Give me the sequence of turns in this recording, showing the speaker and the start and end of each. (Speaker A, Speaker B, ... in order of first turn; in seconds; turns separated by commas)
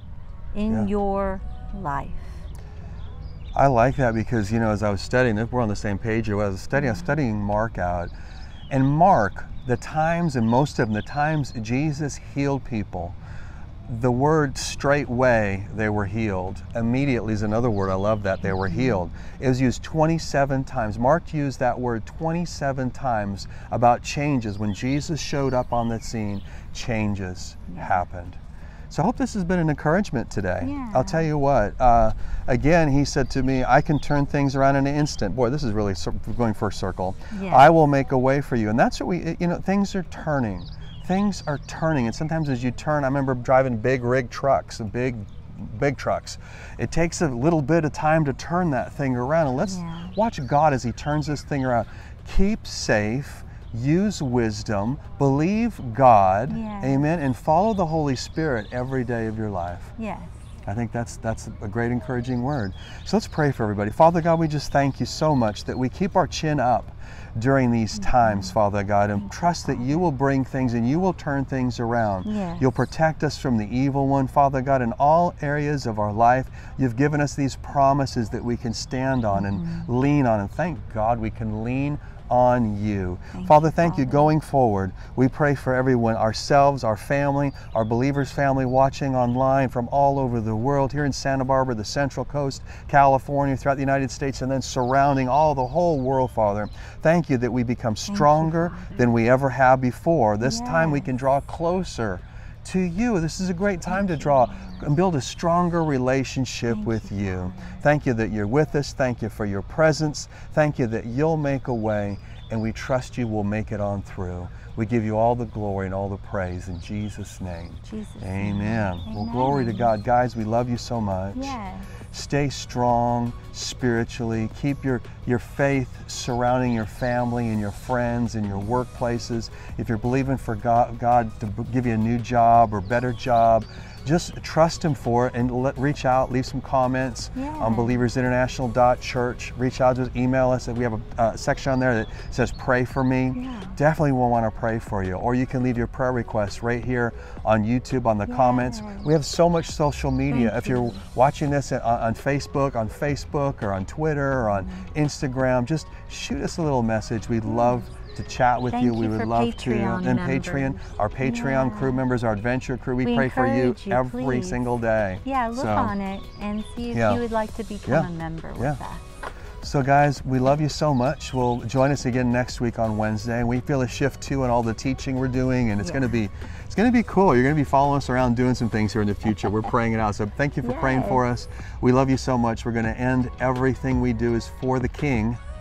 Speaker A: 0.5-2.4, Speaker B: 3.5-8.1, Speaker A: 6.7-7.2, Speaker B: 8.7-13.2, Speaker B: 13.8-28.4, Speaker A: 18.4-19.0, Speaker A: 27.7-28.0, Speaker B: 28.9-59.9, Speaker A: 30.6-31.3, Speaker A: 37.3-37.7, Speaker A: 49.6-50.1, Speaker A: 56.5-57.0, Speaker A: 60.0-60.4, Speaker B: 60.6-121.5, Speaker A: 67.9-68.5, Speaker A: 69.2-70.1, Speaker A: 72.2-72.7, Speaker A: 79.3-79.9, Speaker A: 83.3-84.3, Speaker A: 98.1-99.2, Speaker A: 100.4-101.1, Speaker A: 103.9-104.9, Speaker A: 106.7-107.8, Speaker A: 117.8-119.9, Speaker A: 121.3-121.9, Speaker B: 122.1-165.9, Speaker A: 137.3-138.0, Speaker A: 143.3-143.8, Speaker A: 148.2-149.1, Speaker A: 150.3-151.0, Speaker A: 157.4-157.8, Speaker A: 158.7-162.0, Speaker A: 163.0-164.6, Speaker A: 165.2-169.0, Speaker B: 166.9-167.2, Speaker B: 167.9-168.8, Speaker B: 169.6-185.4, Speaker A: 175.8-176.2, Speaker A: 180.6-181.2